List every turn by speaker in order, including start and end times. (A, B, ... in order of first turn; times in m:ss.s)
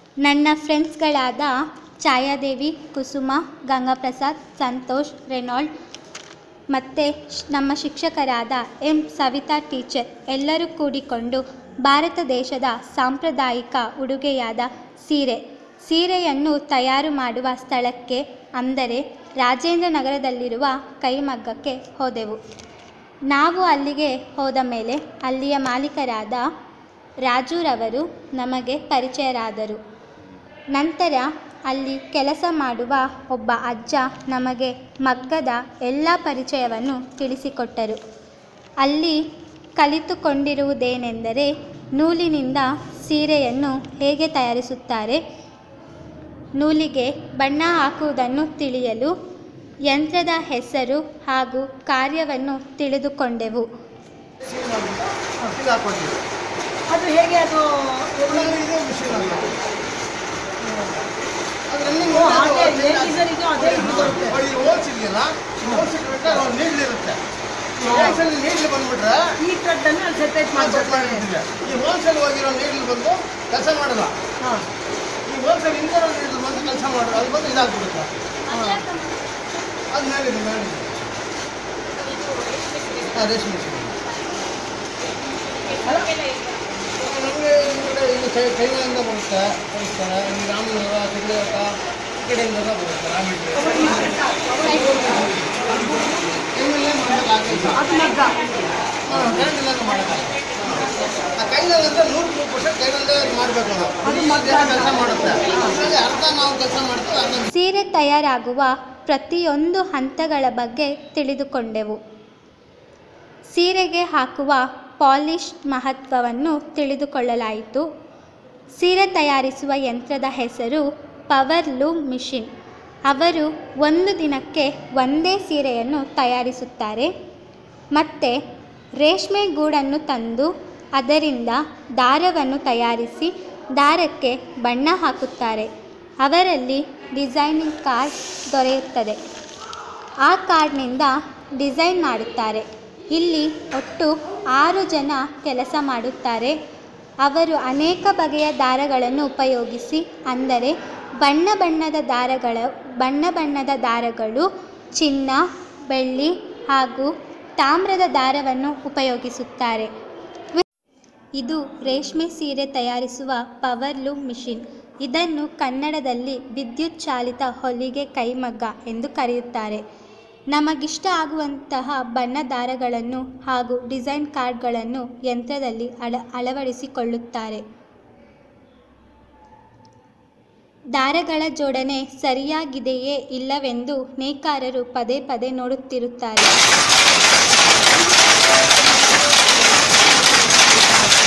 0:00.2-0:05.7 A
0:06.7-0:22.4 A
0:23.3-0:26.4 A
0:27.2-0:29.8 A
0:30.7-0:38.0 A
0:38.8-0:39.2 A
0:39.8-0:45.2 A
0:46.6-0:49.1 A
0:49.9-0:53.7 A
0:54.4-0:56.2 B
0:56.9-0:58.6 C
0:58.3-0:59.6 B
1:00.6-1:00.9 C
1:01.7-1:07.2 B
1:02.1-1:04.4 C
1:07.8-1:08.2 C
1:07.8-1:09.4 B
1:09.4-1:11.2 C
1:10.5-1:14.2 B
1:14.4-1:14.6 C
1:15.2-1:18.1 B
1:18.5-1:18.9 C
1:19.9-1:21.1 B
1:23.0-1:23.9 B
1:25.8-1:26.1 C
1:27.0-1:34.2 B
1:33.7-1:35.3 C
1:36.4-1:37.8 B
1:37.7-1:38.4 C
1:39.1-1:40.8 B
1:41.4-1:47.5 B
1:44.0-1:45.8 C
1:47.5-1:52.0 A
1:53.5-1:57.8 A
1:58.8-2:02.5 A
2:03.1-2:07.1 A
2:07.9-2:08.4 A
2:09.0-2:15.7 A
2:16.2-2:19.2 A
2:20.2-2:26.6 A
2:27.2-2:34.5 A
2:35.0-2:39.9 A
2:41.4-2:49.8 A
2:50.5-2:57.6 A
3:00.9-3:06.5 A